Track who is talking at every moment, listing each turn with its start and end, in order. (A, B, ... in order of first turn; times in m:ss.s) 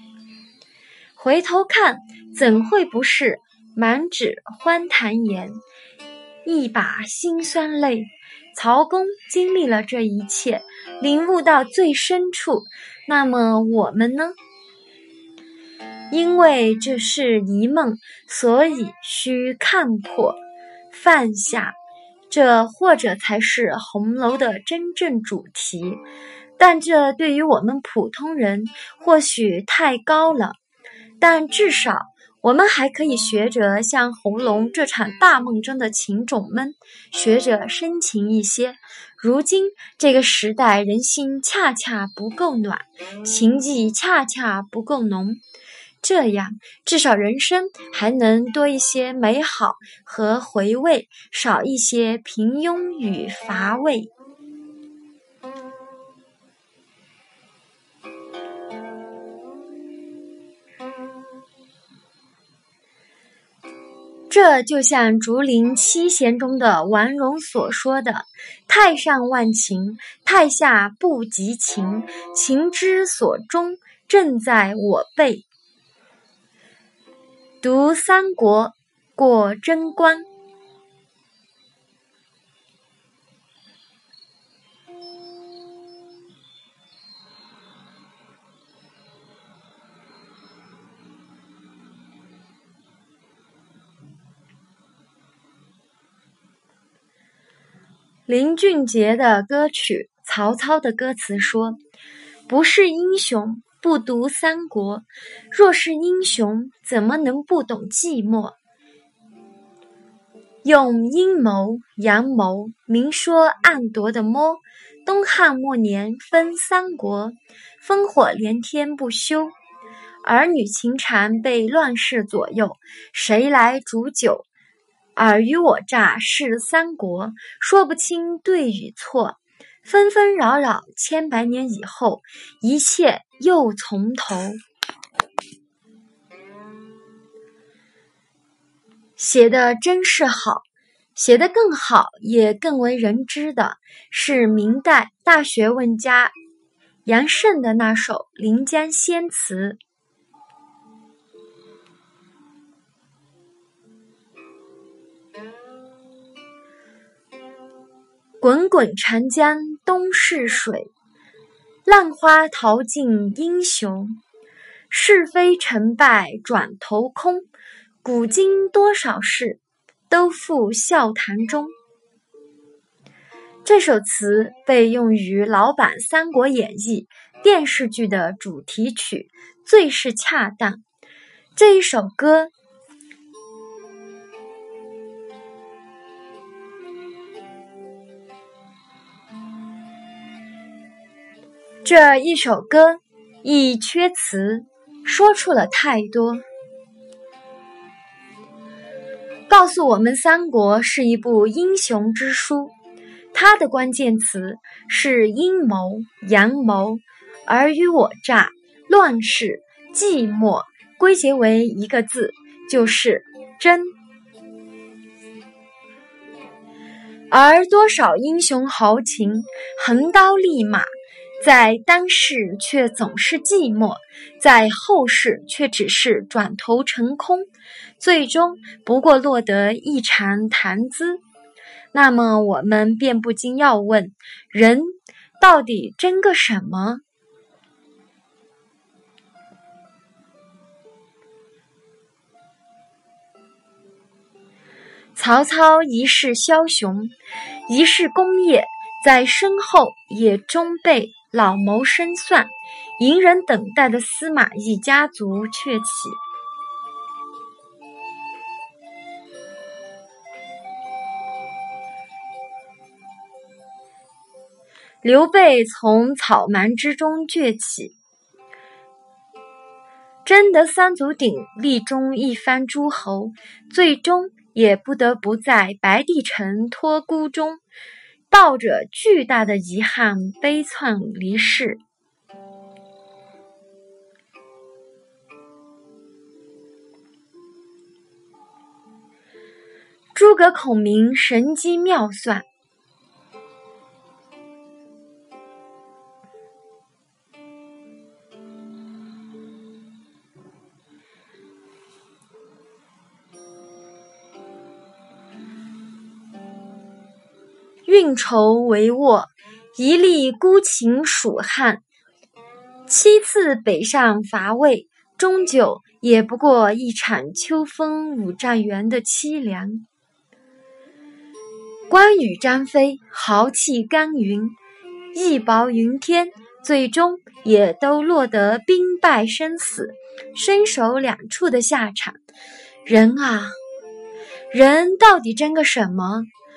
0:01.2-0:05.6 A
0:06.4-0:14.4 A
0:16.1-0:20.4 A
0:20.9-0:21.7 A
0:22.3-0:26.0 A
0:26.6-0:30.6 A
0:31.2-0:45.4 A
0:46.0-0:54.1 A
1:04.3-1:15.4 A
1:17.6-1:20.3 A
1:38.3-1:41.8 A
1:42.5-1:48.6 A
1:50.6-1:59.5 A
2:00.2-2:04.4 A
2:05.2-2:14.6 A
2:19.2-2:20.6 A
2:21.2-2:26.3 A
2:27.0-2:29.8 A
2:38.4-2:40.9 A
2:41.8-2:44.2 A
2:44.9-2:47.4 A
2:48.0-2:51.7 A
2:53.6-3:00.8 A
3:01.6-3:02.5 A
3:11.8-3:16.4 A
3:19.5-3:22.7 A
3:23.3-3:33.9 A
3:37.3-3:40.9 A
3:41.4-3:47.5 A
3:48.0-3:51.2 A
3:51.9-3:57.0 A
4:05.2-4:07.1 A
4:07.7-4:16.2 A
4:25.0-4:27.9 A
4:30.2-4:37.6 A
4:38.3-4:41.8 A
4:50.1-4:52.4 A
5:07.8-5:11.8 A
5:12.9-5:19.8 A
5:21.9-5:24.6 A
5:25.1-5:32.2 A
5:32.8-5:33.6 A
5:34.5-5:36.3 A